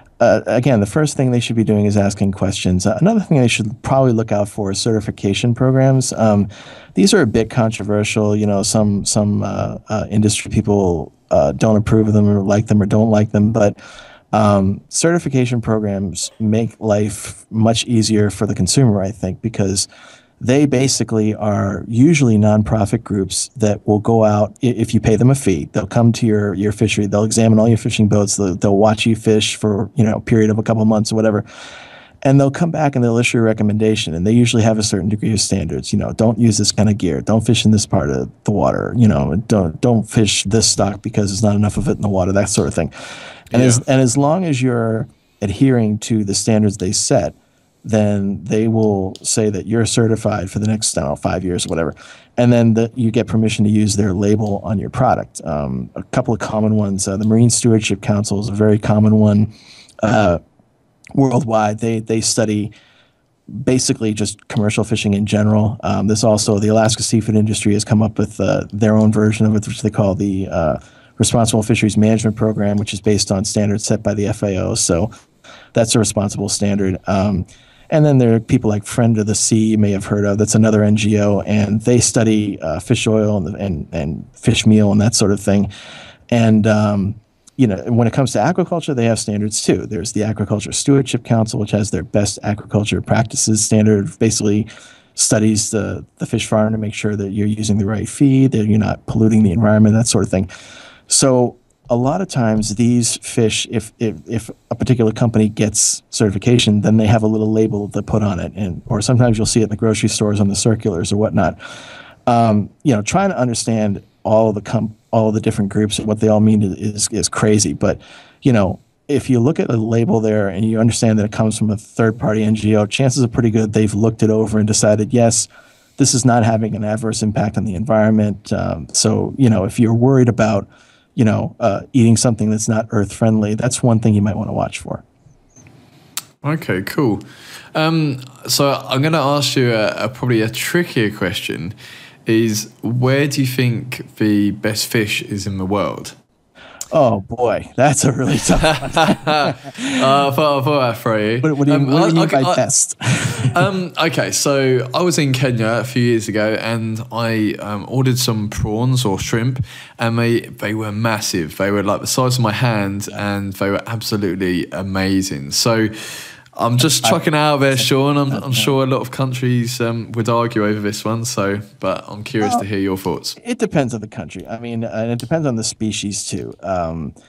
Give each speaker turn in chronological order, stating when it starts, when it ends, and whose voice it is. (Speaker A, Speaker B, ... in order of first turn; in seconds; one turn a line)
Speaker A: 0.2-13.8
Speaker A: 14.3-19.9
Speaker A: 20.4-31.4
Speaker A: 32.2-60.4
Speaker B: 43.5-43.8
Speaker A: 61.1-62.7
Speaker A: 63.5-75.1
Speaker A: 75.8-85.7
Speaker A: 86.3-100.5
Speaker A: 101.1-111.6
Speaker A: 112.3-135.0
Speaker B: 136.4-141.8
Speaker B: 142.3-146.2
Speaker A: 146.9-150.0
Speaker B: 148.6-152.6
Speaker A: 151.4-153.7
Speaker B: 153.3-173.4
Speaker A: 167.8-168.7
Speaker A: 173.4-177.1